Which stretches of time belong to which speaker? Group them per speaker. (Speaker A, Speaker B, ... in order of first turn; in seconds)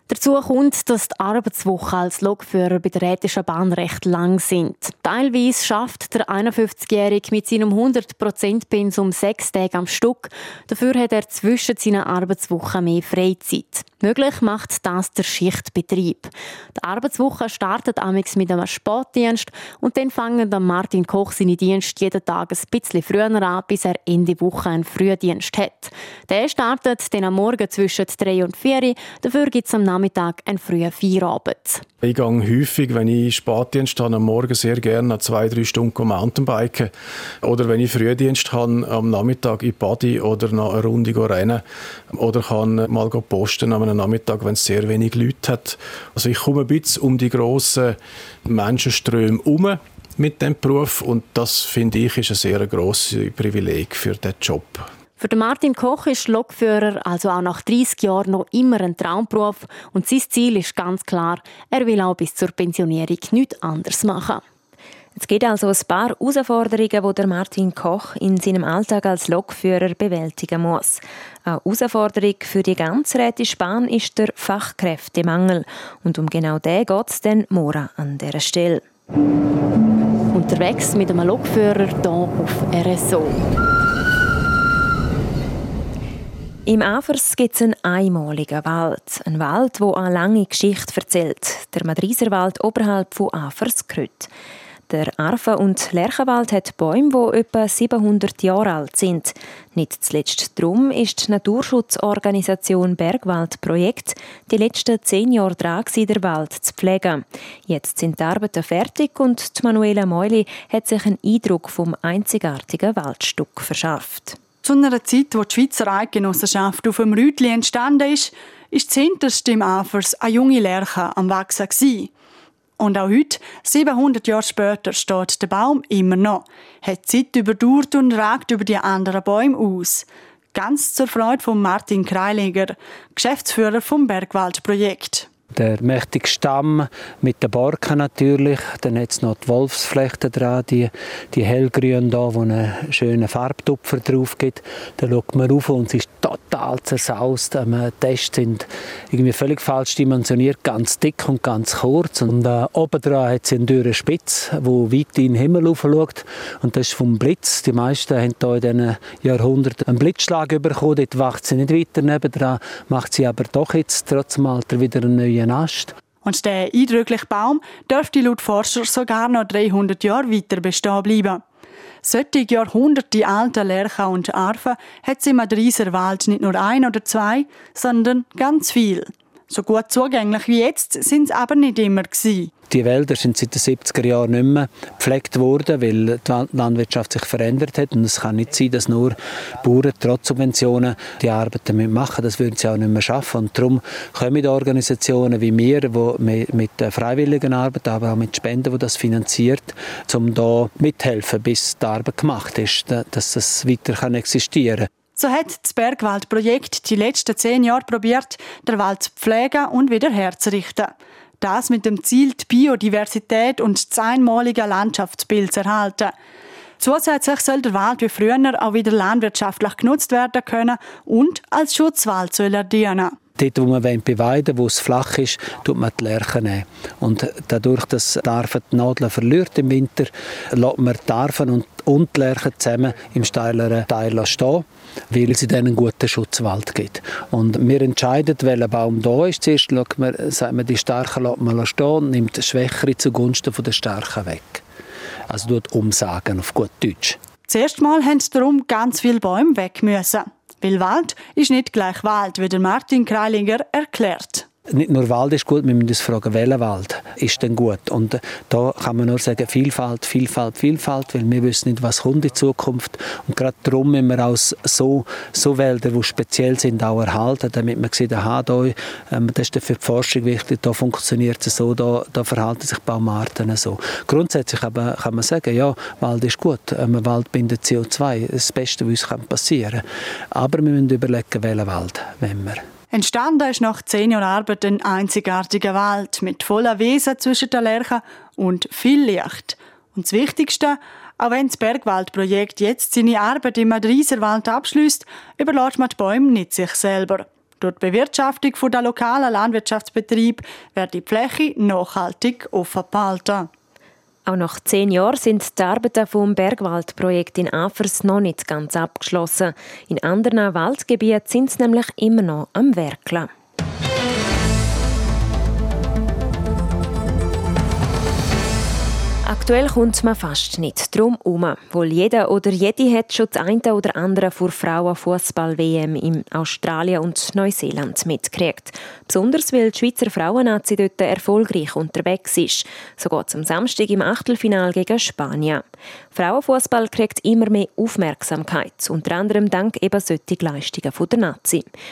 Speaker A: 0.1-31.8, 55.2-64.4, 80.3-83.4
Speaker B: 32.0-36.9, 37.4-54.9
Speaker C: 65.2-78.8, 86.7-94.3, 94.9-114.4, 304.3-313.3, 319.3-341.7
Speaker D: 114.6-122.1, 122.8-135.3, 166.2-171.4, 172.0-182.5, 205.2-216.1, 216.8-223.2, 247.5-254.4, 282.9-303.5
Speaker E: 135.6-165.9, 182.7-204.9, 223.4-244.6, 245.3-247.2, 254.7-279.8, 280.4-282.6